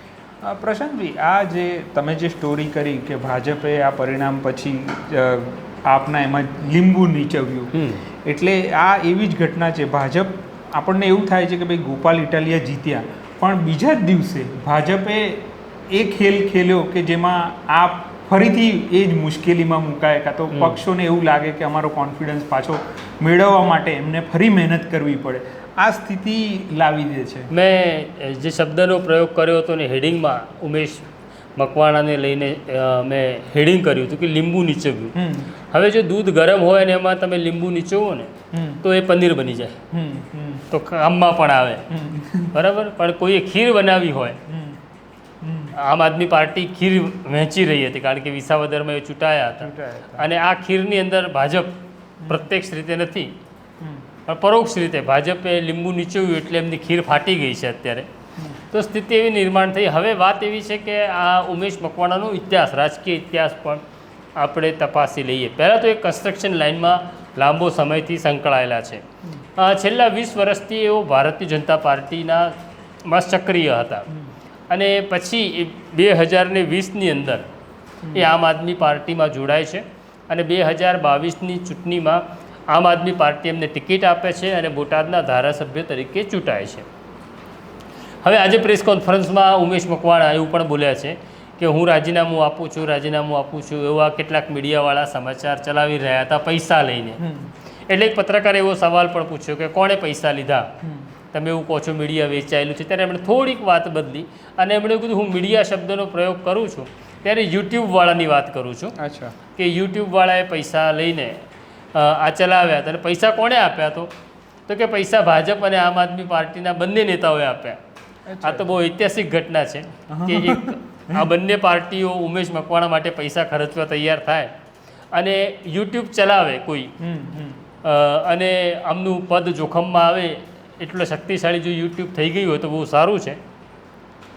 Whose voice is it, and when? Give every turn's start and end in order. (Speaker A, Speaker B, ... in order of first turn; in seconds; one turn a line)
Speaker A: 0.4-27.5
Speaker B: 7.7-8.0
Speaker B: 20.5-20.8
Speaker B: 27.5-35.1
Speaker A: 35.1-35.5
Speaker B: 35.7-38.3
Speaker A: 38.5-38.8
Speaker B: 38.8-39.8
Speaker A: 39.9-40.6
Speaker B: 40.7-41.9
Speaker A: 41.9-42.5
Speaker B: 42.5-44.4
Speaker A: 44.5-44.8
Speaker A: 45.4-45.7
Speaker B: 45.8-51.7
Speaker A: 49.6-50.2
Speaker A: 52.2-52.5
Speaker B: 52.3-53.3
Speaker B: 54.3-58.1
Speaker B: 58.7-63.8
Speaker B: 64.4-69.0
Speaker B: 69.6-72.5
Speaker B: 73.1-74.1
Speaker B: 74.7-77.4
Speaker B: 78.1-86.8
Speaker B: 88.2-97.2
Speaker A: 97.2-97.5
Speaker B: 97.9-100.7
Speaker A: 100.8-101.1
Speaker B: 101.3-108.9
Speaker A: 109.0-109.3
Speaker B: 109.5-111.4
Speaker B: 111.9-114.1
Speaker B: 114.7-117.8
Speaker A: 118.3-118.8
Speaker B: 118.4-124.5
Speaker A: 120.1-121.3
Speaker B: 125.1-126.9
Speaker A: 127.0-127.6
Speaker B: 127.8-133.4